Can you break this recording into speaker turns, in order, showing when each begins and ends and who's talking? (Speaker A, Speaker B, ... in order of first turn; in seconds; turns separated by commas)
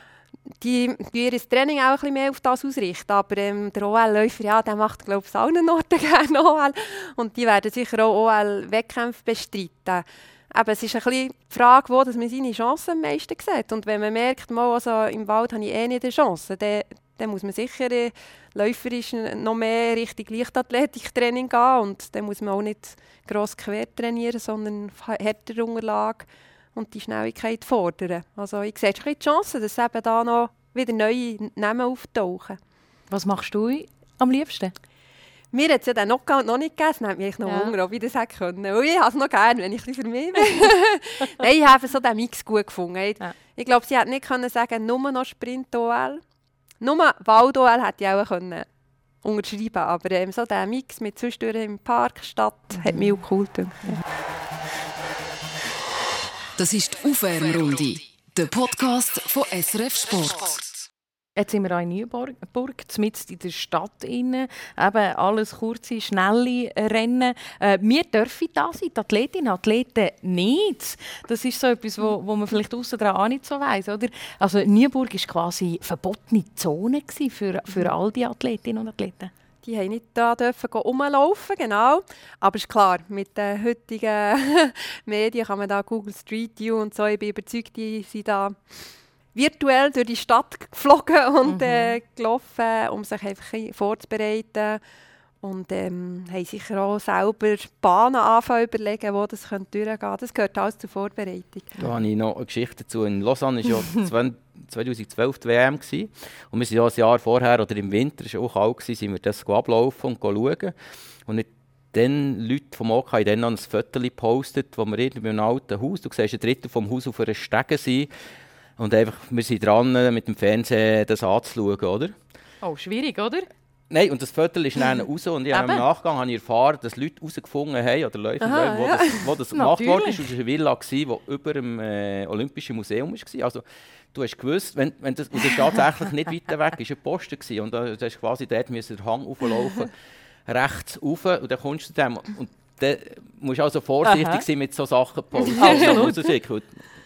Speaker A: 0.6-32.6, Speaker B: 33.1-34.8, Speaker A: 35.5-46.2, Speaker B: 37.5-37.7, Speaker A: 46.8-48.7, Speaker A: 49.2-54.0, Speaker B: 52.8-53.2, Speaker C: 56.6-60.9, Speaker B: 61.4-79.3, Speaker A: 79.6-88.6, Speaker A: 89.3-94.8, Speaker B: 91.5-92.0, Speaker A: 95.4-101.7, Speaker D: 101.8-110.8, Speaker D: 111.3-118.1, Speaker D: 118.8-122.2, Speaker B: 122.6-123.5, Speaker D: 123.9-139.9, Speaker B: 125.5-125.8, Speaker A: 128.4-129.2, Speaker B: 129.5-130.3, Speaker D: 140.5-146.8, Speaker B: 144.0-144.4, Speaker B: 145.6-146.3